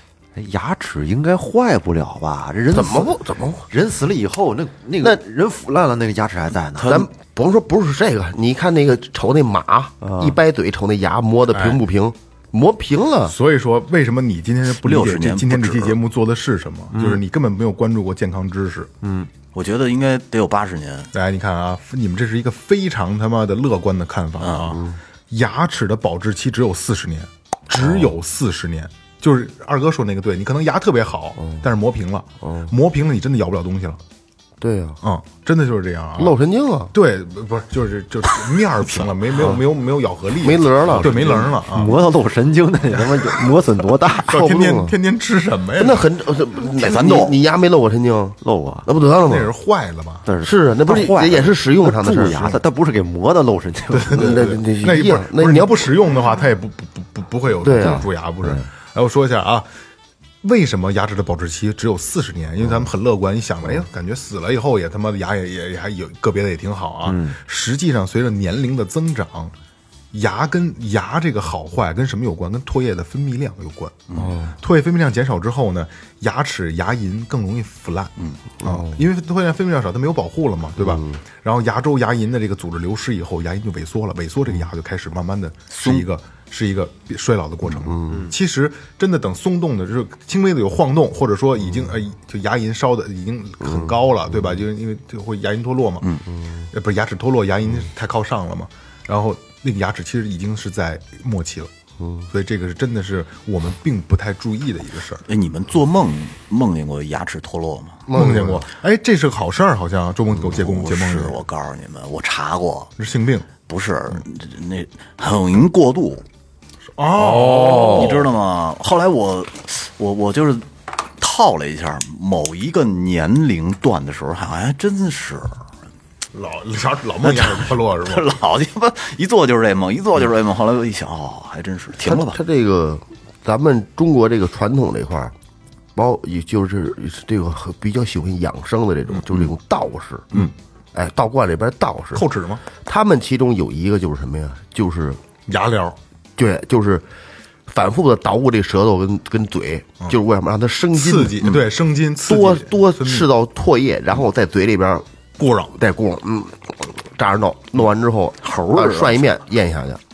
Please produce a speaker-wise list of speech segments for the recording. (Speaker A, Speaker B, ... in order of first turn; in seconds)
Speaker A: 0.3-7.0, 10.0-10.3, 16.9-17.2, 19.0-19.3, 41.7-44.5, 48.4-48.9, 50.2-54.5, 67.0-67.3
Speaker B: 2.7-3.7, 6.8-13.3, 24.7-25.0, 27.8-28.1, 32.4-32.7, 34.6-35.0, 36.2-36.9, 40.4-41.5, 44.3-45.0, 45.7-49.5, 50.4-52.6, 54.1-55.9, 57.6-58.0, 74.2-74.5, 78.6-79.0, 80.8-81.2, 87.8-88.2, 93.6-93.9, 102.0-102.2, 108.1-108.6, 117.4-118.1, 132.0-135.3, 135.9-142.2, 142.8-145.2, 146.4-147.0, 147.7-151.6, 152.2-155.1, 155.7-160.0
Speaker C: 6.8-7.1, 14.8-15.9, 19.5-21.1, 24.4-24.7, 46.7-47.4, 85.7-86.0, 105.3-108.0, 110.5-112.9, 113.7-116.2, 117.2-125.6, 127.2-132.4, 158.4-159.2
Speaker D: 11.5-11.8, 13.3-18.9, 21.1-34.0, 35.0-36.4, 36.9-41.9, 43.0-43.3, 44.2-46.0, 49.2-50.3, 53.9-59.7, 60.4-69.5, 70.1-96.1, 96.7-101.7, 102.3-105.2, 108.1-111.4, 113.0-113.5, 117.0-118.3, 126.3-128.3, 142.1-142.6, 145.5-146.0, 150.9-153.3, 155.4-155.8